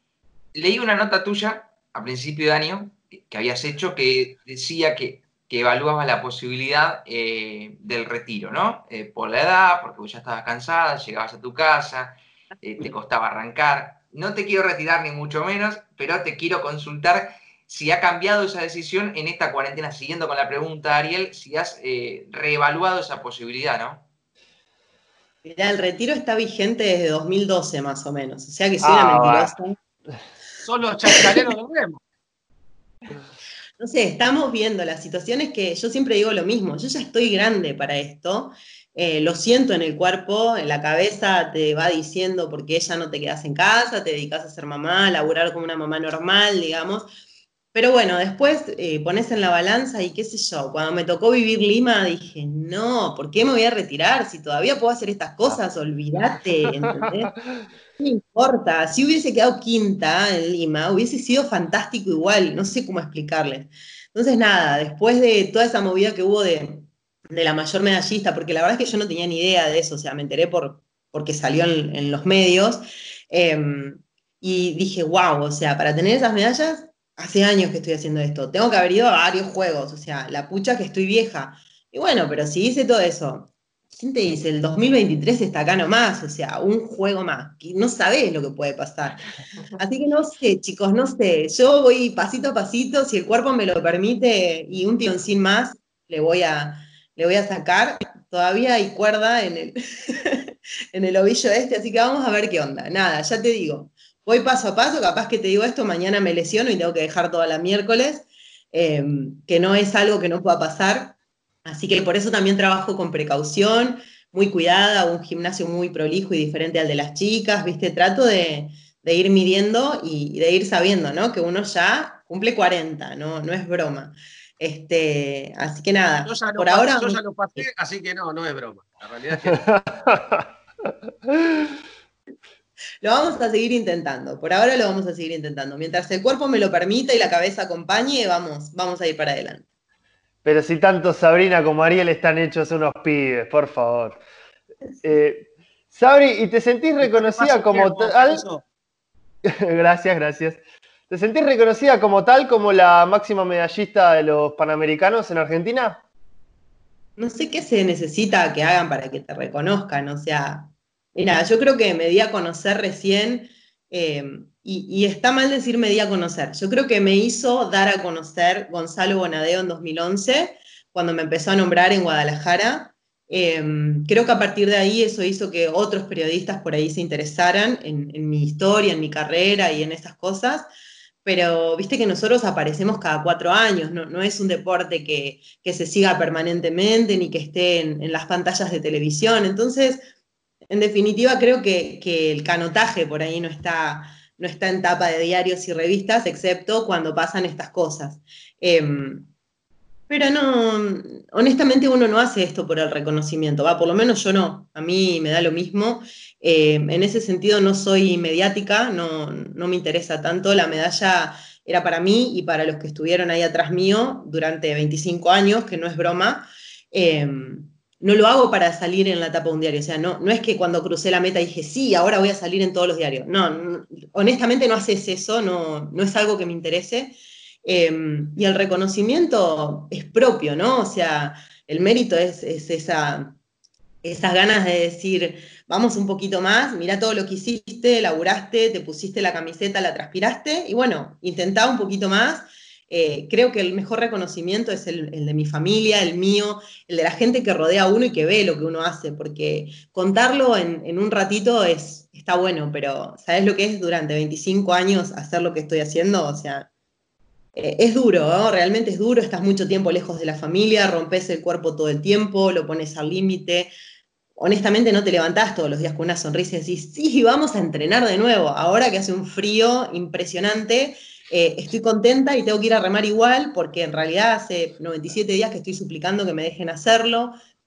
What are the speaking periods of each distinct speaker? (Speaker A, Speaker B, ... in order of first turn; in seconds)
Speaker A: 0.5-24.0
Speaker B: 25.4-29.8, 33.8-47.1, 47.7-57.4, 58.0-89.2, 89.8-127.7, 133.0-139.6, 157.2-180.7, 181.2-190.0, 190.7-199.3, 200.1-233.4, 234.0-256.7, 257.6-263.7, 264.4-277.4
Speaker C: 28.8-29.6, 129.5-130.4, 140.4-144.2, 145.0-148.4, 149.4-156.0
Speaker D: 30.6-32.0, 126.3-129.7, 147.0-148.6